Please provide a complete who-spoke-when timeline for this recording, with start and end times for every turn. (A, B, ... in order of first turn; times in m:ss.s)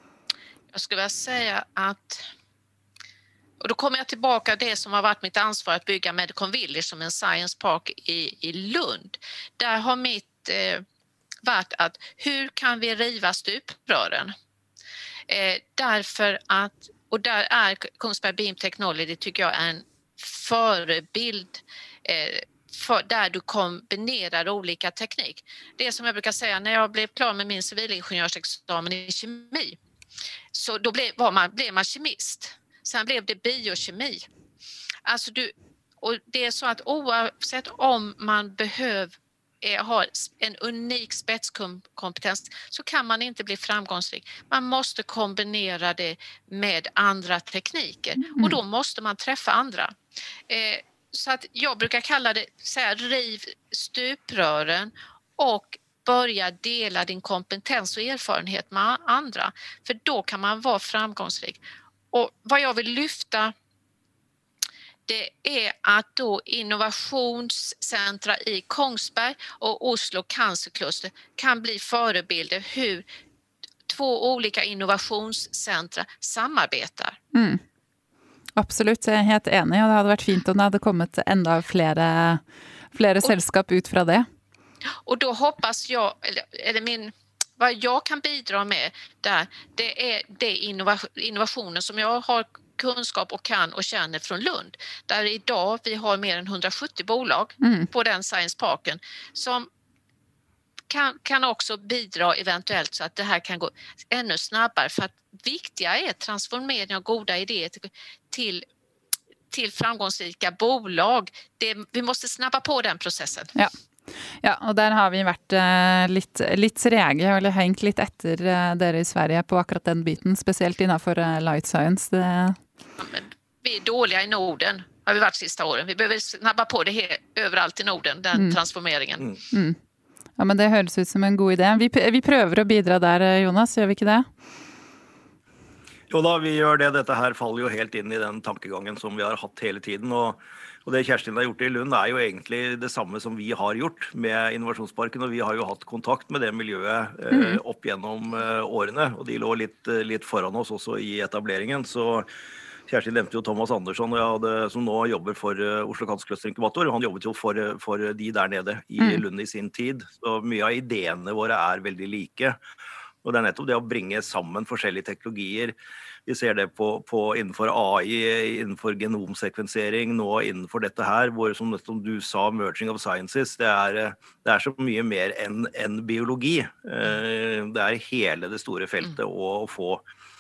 0:00.7-0:02.3 A
0:03.6-0:10.8 A
0:11.4-0:14.3 A
0:15.3-0:29.8 A
0:30.5-0:34.3 A
0:35.0-0:50.0 A
0:48.2-0:48.6 B
0:50.5-1:01.6 A
1:02.1-1:03.5 A
1:05.1-1:13.1 A
1:13.9-1:17.2 A
1:17.3-1:17.6 B
1:18.6-1:22.4 B
1:22.9-1:24.3 B
1:25.0-1:39.7 A
1:37.6-1:37.9 B
1:40.9-1:48.6 A
1:49.5-1:53.6 A
1:54.4-2:02.6 B
2:03.0-2:09.3 A
2:09.5-2:09.8 B
2:10.4-2:14.3 B
2:16.1-2:32.3 C
2:27.3-2:27.6 B
2:32.9-2:42.6 C
2:43.2-2:45.8 C
2:46.3-3:00.0 C